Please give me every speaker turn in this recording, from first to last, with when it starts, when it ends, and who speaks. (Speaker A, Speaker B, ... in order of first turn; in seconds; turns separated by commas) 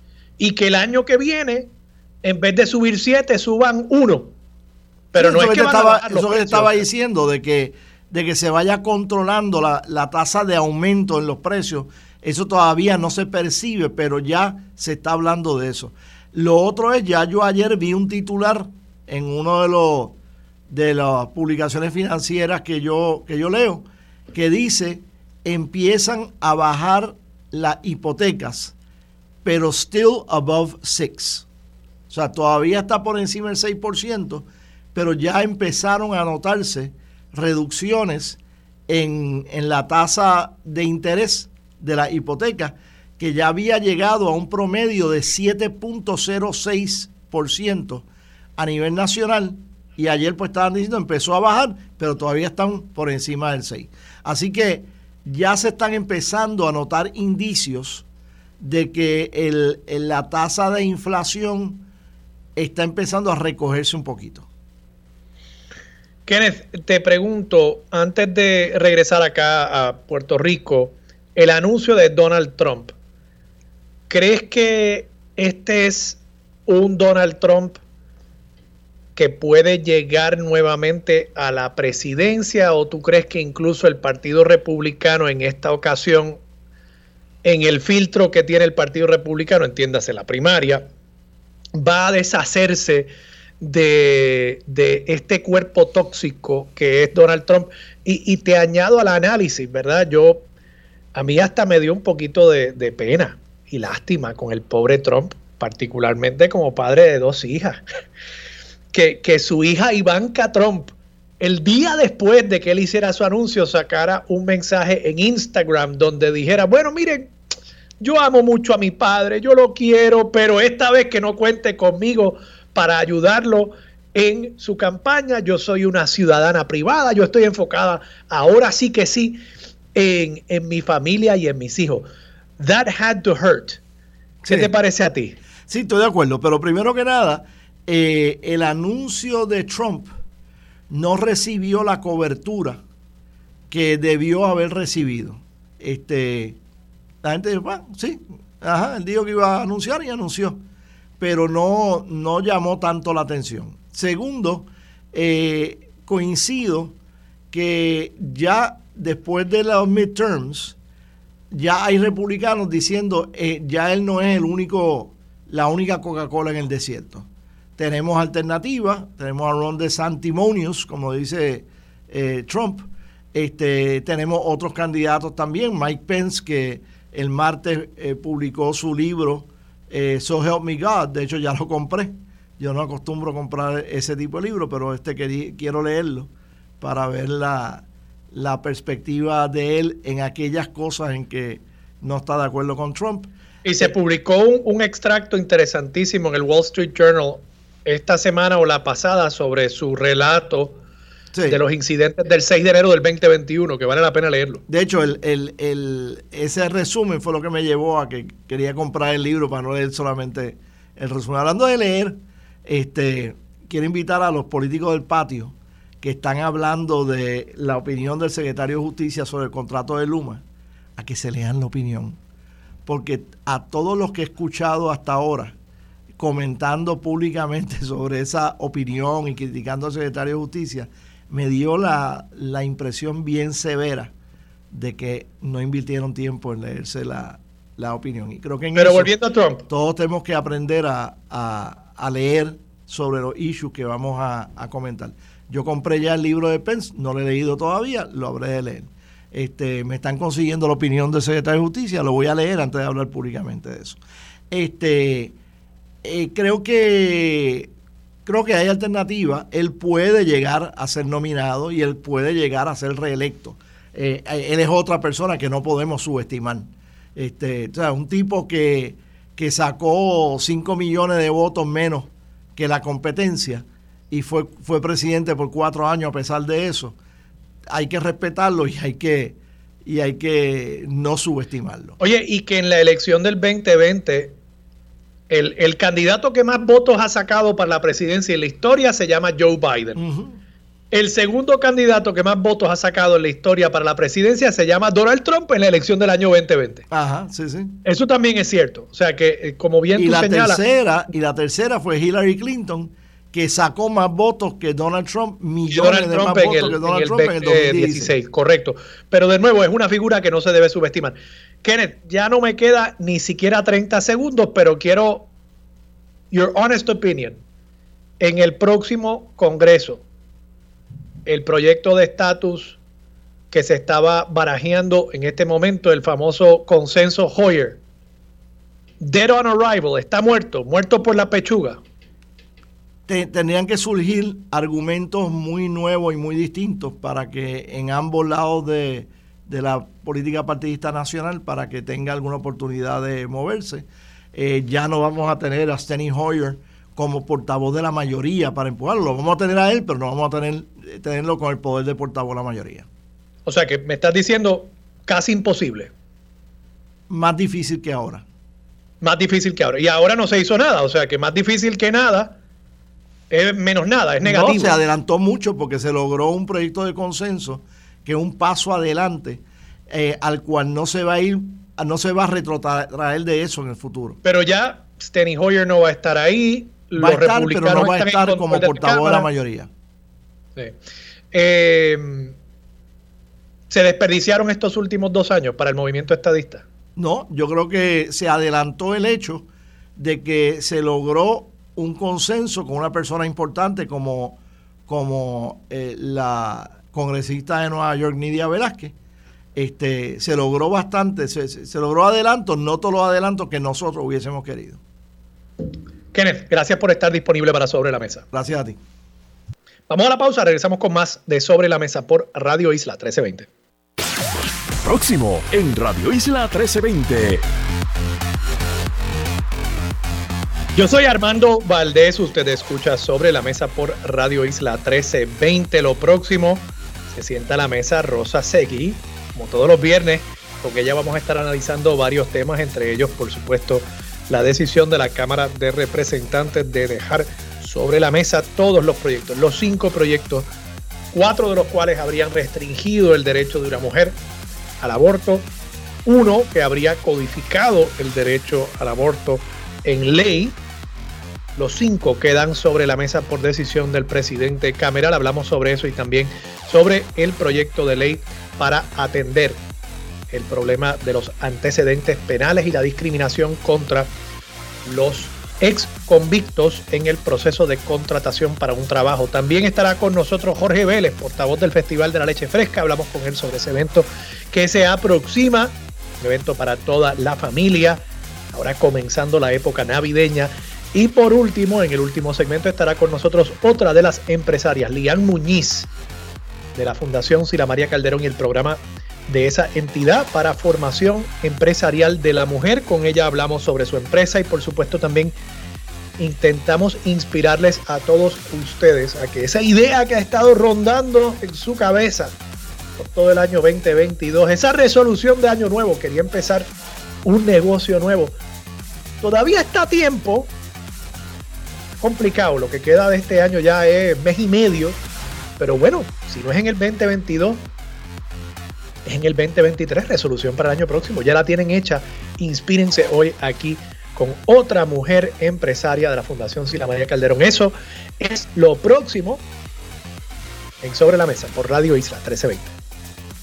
Speaker A: 0.4-1.7, Speaker A: 2.2-4.3, Speaker A: 5.1-6.9, Speaker B: 5.2-20.2, Speaker B: 20.7-28.7, Speaker B: 29.4-31.5, Speaker B: 32.1-48.0, Speaker B: 48.6-58.0, Speaker B: 58.6-61.9, Speaker B: 62.6-64.5, Speaker A: 66.3-72.9, Speaker A: 74.1-77.8, Speaker A: 79.2-86.4, Speaker A: 87.4-90.9, Speaker A: 91.8-100.5, Speaker A: 101.2-107.8, Speaker A: 108.9-117.3, Speaker A: 118.0-129.4, Speaker A: 129.9-132.1, Speaker A: 132.6-133.8, Speaker B: 134.4-134.7, Speaker A: 134.5-135.4, Speaker B: 135.7-140.1, Speaker B: 140.9-142.8, Speaker B: 143.7-146.6, Speaker B: 147.2-150.6, Speaker B: 151.2-157.0, Speaker B: 157.5-160.8, Speaker B: 161.5-167.3, Speaker B: 167.8-186.3, Speaker B: 186.8-193.9, Speaker A: 193.7-200.8, Speaker B: 201.3-201.6, Speaker A: 201.5-204.6, Speaker B: 204.7-220.4, Speaker B: 221.0-222.2, Speaker B: 222.9-225.6, Speaker B: 226.2-234.1, Speaker B: 234.7-239.1, Speaker A: 238.8-239.7, Speaker B: 239.7-254.0, Speaker B: 254.5-255.4, Speaker B: 256.0-257.7, Speaker B: 258.3-277.0, Speaker B: 277.7-282.0, Speaker A: 282.0-284.4, Speaker A: 285.3-290.0, Speaker B: 290.0-290.4, Speaker A: 290.9-296.9, Speaker B: 296.9-297.8, Speaker A: 297.9-300.6, Speaker B: 300.0-308.1, Speaker A: 305.7-315.3, Speaker A: 316.3-317.4, Speaker A: 318.2-320.0, Speaker A: 321.3-322.8, Speaker A: 323.5-327.8, Speaker A: 329.0-331.8, Speaker B: 333.1-352.9, Speaker A: 353.5-355.9, Speaker B: 357.1-358.2, Speaker A: 359.0-362.4, Speaker A: 363.3-364.8, Speaker B: 364.2-374.2, Speaker A: 374.2-379.3, Speaker B: 377.0-379.7, Speaker A: 381.3-382.3, Speaker A: 383.7-386.6, Speaker B: 387.0-398.9, Speaker B: 399.6-404.8, Speaker A: 406.1-408.3, Speaker B: 408.3-408.8, Speaker A: 409.9-413.5, Speaker C: 414.8-417.4, Speaker A: 420.8-440.5, Speaker A: 441.1-444.2, Speaker A: 444.8-445.5, Speaker A: 446.1-450.6, Speaker A: 451.6-459.6, Speaker A: 460.3-464.1, Speaker A: 464.9-478.0, Speaker A: 478.5-485.9, Speaker A: 486.8-495.4, Speaker A: 496.2-502.4, Speaker A: 503.0-506.7, Speaker A: 507.2-508.4, Speaker A: 509.2-510.5, Speaker A: 512.0-515.0, Speaker A: 515.6-517.6, Speaker A: 519.0-529.4, Speaker A: 530.8-532.7